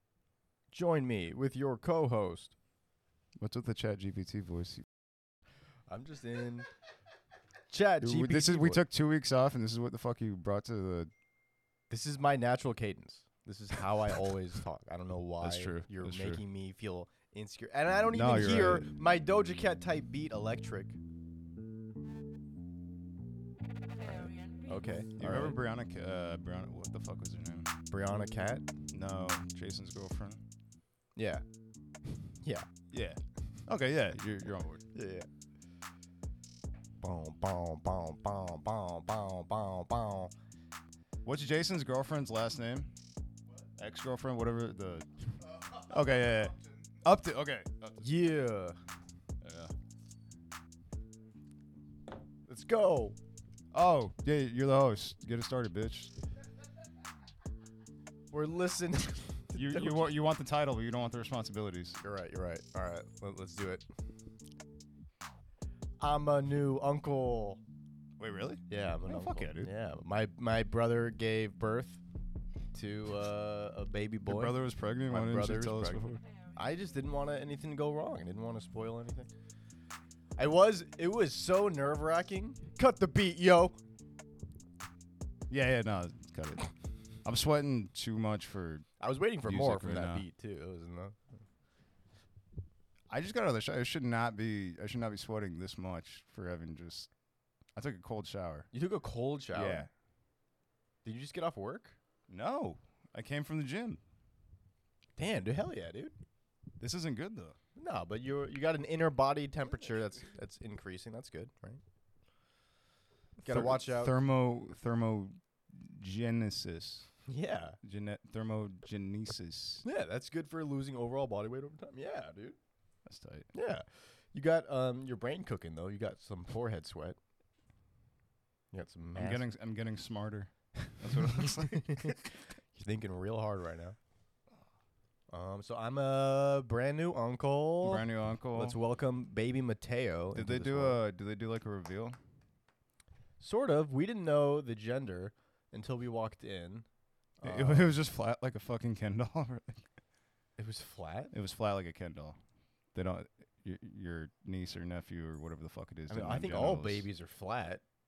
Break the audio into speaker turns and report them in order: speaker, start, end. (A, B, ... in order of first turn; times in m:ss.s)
0:00.7-0:02.5 A
0:03.4-0:04.8 B
0:05.9-0:06.7 A
0:07.7-0:08.8 A
0:08.0-0:11.1 B
0:11.9-0:21.0 A
0:15.4-0:16.4 B
0:18.1-0:18.9 B
0:24.2-0:25.6 A
0:25.2-0:27.7 B
0:27.9-0:28.6 A
0:28.9-0:30.4 B
0:31.2-0:31.4 A
0:32.3-0:32.7 A
0:32.9-0:34.8 B
0:34.9-0:35.3 A
0:37.0-0:40.3 A
0:41.2-0:42.9 B
0:43.8-0:45.1 B
0:45.8-0:48.1 B
0:48.0-0:48.8 A
0:49.4-0:49.7 B
0:52.5-0:53.2 A
0:53.7-0:56.1 B
0:58.3-1:00.1 A
0:59.5-1:02.0 B
1:02.0-1:03.8 A
1:06.0-1:07.6 A
1:08.2-1:09.7 B
1:08.7-1:12.0 A
1:12.7-1:19.3 A
1:14.2-1:16.2 B
1:20.4-1:23.8 A
1:25.5-1:26.7 B
1:27.2-1:28.9 B
1:29.0-1:31.3 A
1:29.4-1:30.2 B
1:33.1-1:37.1 B
1:37.7-1:38.7 B
1:38.7-1:39.8 A
1:39.5-1:39.9 B
1:41.0-1:42.0 A
1:42.3-1:44.0 B
1:45.2-1:46.1 A
1:46.8-1:47.6 B
1:47.8-1:51.8 A
1:53.4-1:57.1 B
1:53.4-1:54.2 A
1:57.3-1:57.8 A
1:57.8-1:59.8 B
1:59.8-2:02.6 A
2:03.0-2:03.5 B
2:03.5-2:07.2 A
2:08.7-2:09.5 A
2:09.1-2:12.2 B
2:11.2-2:14.0 A
2:15.3-2:21.0 A
2:17.8-2:18.8 B
2:20.3-2:22.2 B
2:23.4-2:26.8 A
2:27.4-2:27.9 A
2:27.4-2:29.8 B
2:30.6-2:31.3 A
2:31.3-2:32.4 B
2:32.9-2:37.1 B
2:36.1-2:37.8 A